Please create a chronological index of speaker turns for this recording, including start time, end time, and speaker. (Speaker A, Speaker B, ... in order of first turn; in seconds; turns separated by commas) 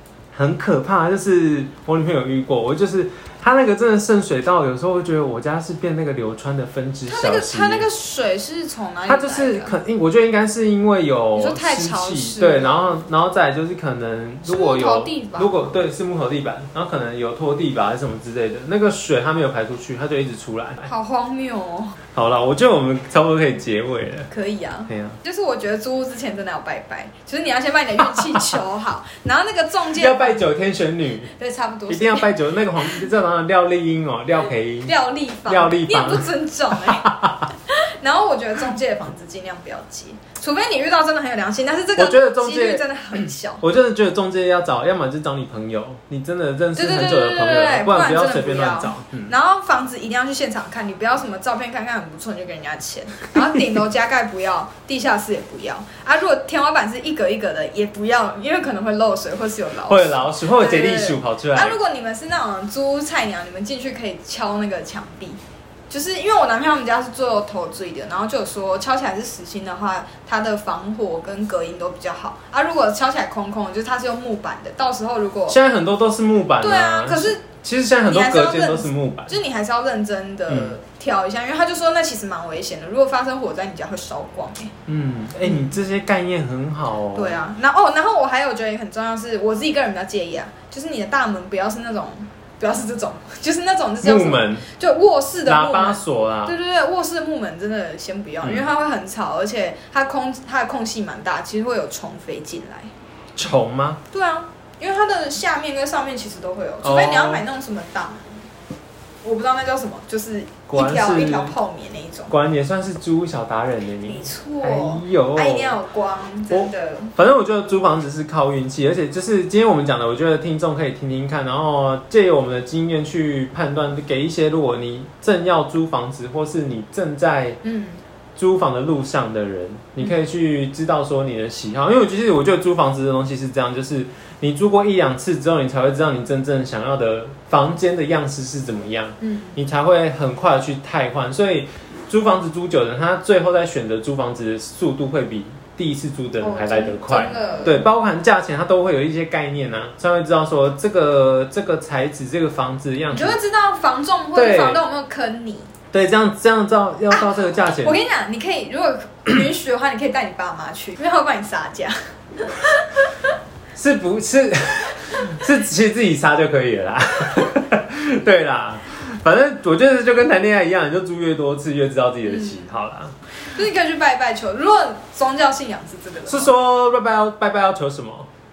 Speaker A: 0.3-7.9, Speaker B: 7.1-9.7, Speaker A: 9.1-20.9, Speaker B: 11.3-12.9, Speaker B: 14.4-15.7, Speaker B: 20.8-22.0, Speaker A: 22.1-24.3, Speaker B: 24.3-30.4, Speaker A: 24.9-25.2, Speaker A: 30.0-31.3, Speaker B: 31.4-32.3, Speaker A: 31.9-35.0, Speaker B: 34.9-43.6, Speaker A: 35.5-37.5, Speaker A: 42.0-49.3, Speaker B: 46.8-75.6, Speaker A: 59.9-61.8, Speaker A: 75.5-79.4, Speaker B: 76.6-77.4, Speaker B: 78.1-84.7, Speaker A: 80.5-80.8, Speaker A: 84.9-87.4, Speaker B: 85.4-85.7, Speaker B: 87.1-102.9, Speaker A: 94.0-94.7, Speaker A: 95.5-96.6, Speaker A: 98.4-98.7, Speaker A: 103.3-104.0, Speaker B: 104.1-108.5, Speaker A: 106.8-107.5, Speaker B: 109.2-112.3, Speaker A: 110.7-111.6, Speaker A: 112.3-115.8, Speaker B: 114.1-117.1, Speaker A: 116.5-127.6, Speaker B: 127.6-128.0, Speaker A: 128.4-153.4, Speaker B: 139.2-139.6, Speaker B: 146.4-147.9, Speaker B: 153.1-155.7, Speaker A: 154.3-154.8, Speaker A: 155.9-158.0, Speaker B: 157.1-163.3, Speaker A: 163.8-173.2, Speaker B: 172.3-172.7, Speaker B: 173.4-176.5, Speaker A: 176.3-178.3